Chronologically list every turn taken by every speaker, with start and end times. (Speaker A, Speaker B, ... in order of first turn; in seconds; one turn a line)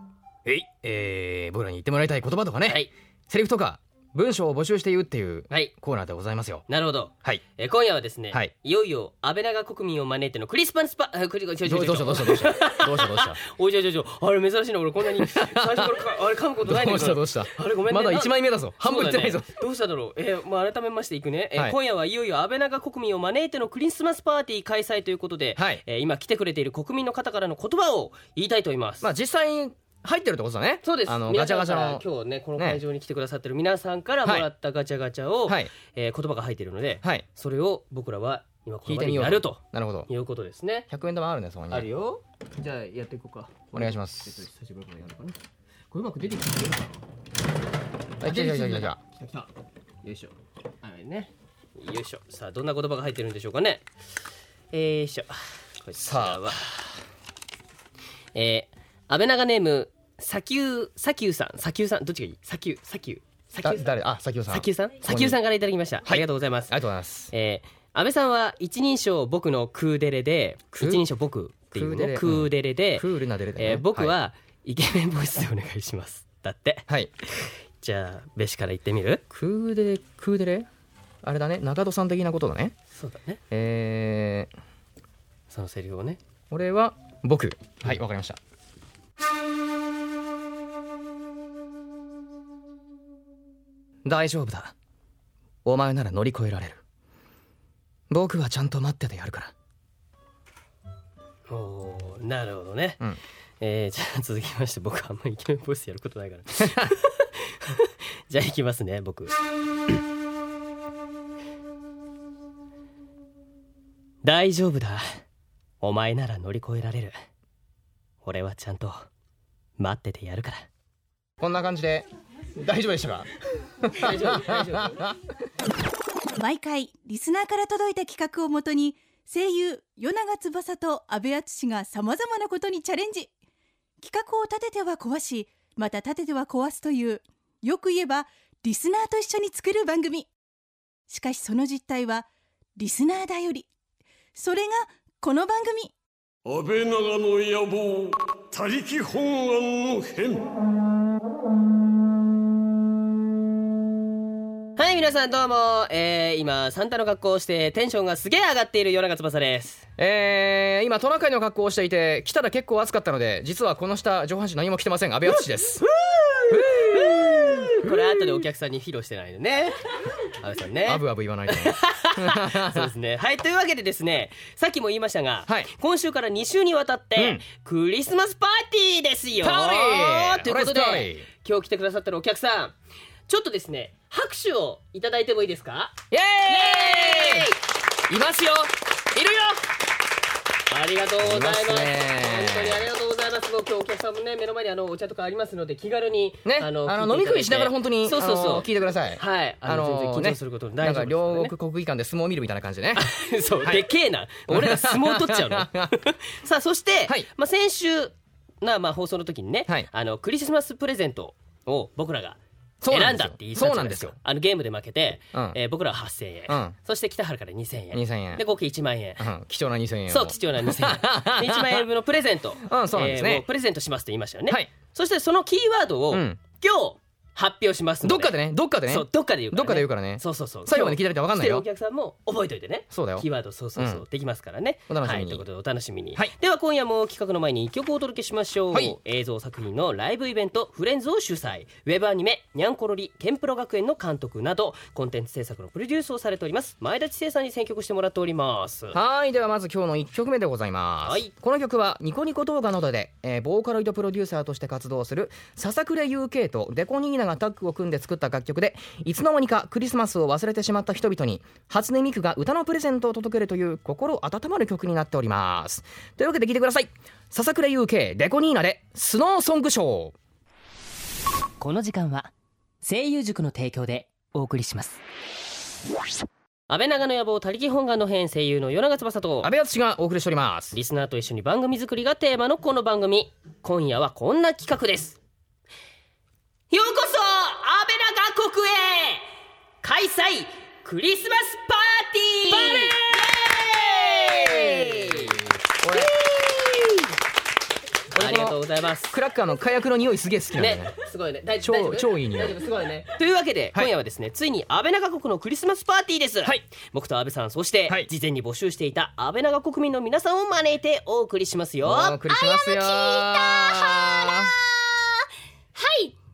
Speaker A: 0.4-6.7
Speaker B: 2.6-2.9
Speaker B: 6.7-29.1
Speaker A: 11.6-13.4
Speaker A: 15.2-15.9
Speaker A: 16.6-19.5
Speaker A: 25.6-25.8
Speaker A: 29.0-32.0
Speaker B: 30.8-40.9
Speaker A: 32.6-32.8
Speaker A: 34.2-34.5
Speaker A: 38.8-40.1
Speaker A: 40.9-41.9
Speaker B: 41.7-45.4
Speaker A: 43.7-44.4
Speaker B: 45.9-47.0
Speaker A: 48.2-49.0
Speaker B: 48.2-49.5
Speaker B: 50.0-53.8
Speaker B: 54.7-56.6
Speaker A: 56.0-56.7
Speaker B: 58.3-63.9
Speaker A: 63.6-65.4
Speaker B: 64.5-66.8
Speaker A: 66.0-67.3
Speaker B: 67.3-76.9
Speaker A: 70.7-71.0
Speaker A: 71.7-74.1
Speaker B: 77.4-79.2
Speaker A: 79.3-80.7
Speaker A: 81.2-82.7
Speaker B: 82.9-83.4
Speaker A: 83.5-84.5
Speaker B: 85.5-86.2
Speaker A: 86.5-88.4
Speaker A: 94.0-94.7
Speaker A: 95.6-96.8
Speaker A: 98.1-99.5
Speaker B: 101.5-103.0
Speaker B: 103.6-109.3
Speaker A: 106.6-106.9
Speaker B: 114.2-115.2
Speaker B: 115.8-117.1
Speaker B: 118.2-119.0
Speaker B: 119.8-120.7
Speaker A: 121.4-123.3
Speaker A: 123.8-125.2
Speaker B: 124.0-125.0
Speaker C: 126.3-133.3
Speaker C: 134.0-140.3
Speaker C: 141.1-142.2
Speaker C: 142.8-143.7
Speaker C: 144.3-145.9
Speaker D: 146.4-150.4
Speaker B: 154.8-159.9
Speaker A: 160.0-165.8
Speaker B: 166.2-169.8
Speaker A: 166.5-168.4
Speaker B: 170.4-182.7
Speaker A: 170.8-172.9
Speaker A: 177.2-177.4
Speaker A: 179.4-181.3
Speaker B: 183.3-187.6
Speaker A: 186.1-187.5
Speaker A: 188.1-189.6
Speaker B: 190.7-201.5
Speaker A: 191.2-192.8
Speaker A: 196.4-203.9
Speaker B: 202.9-219.3
Speaker A: 204.5-205.9
Speaker A: 212.8-214.2
Speaker A: 216.5-216.8
Speaker A: 217.9-218.4
Speaker A: 219.2-221.8
Speaker B: 220.1-249.0
Speaker A: 222.6-223.4
Speaker A: 226.1-226.4
Speaker A: 228.0-231.7
Speaker A: 232.9-234.0
Speaker A: 234.9-235.4
Speaker A: 238.7-239.0
Speaker A: 248.9-270.1
Speaker B: 251.0-251.3
Speaker B: 271.6-272.3
Speaker B: 272.8-275.0
Speaker B: 276.7-279.5
Speaker A: 279.4-280.8
Speaker B: 280.7-285.2
Speaker B: 286.7-289.2
Speaker B: 289.8-295.4
Speaker A: 292.5-292.9
Speaker A: 294.2-296.8
Speaker A: 298.1-300.9
Speaker B: 298.1-299.1
Speaker B: 300.6-312.2
Speaker A: 301.6-302.6
Speaker A: 311.8-314.5
Speaker E: 312.3-316.1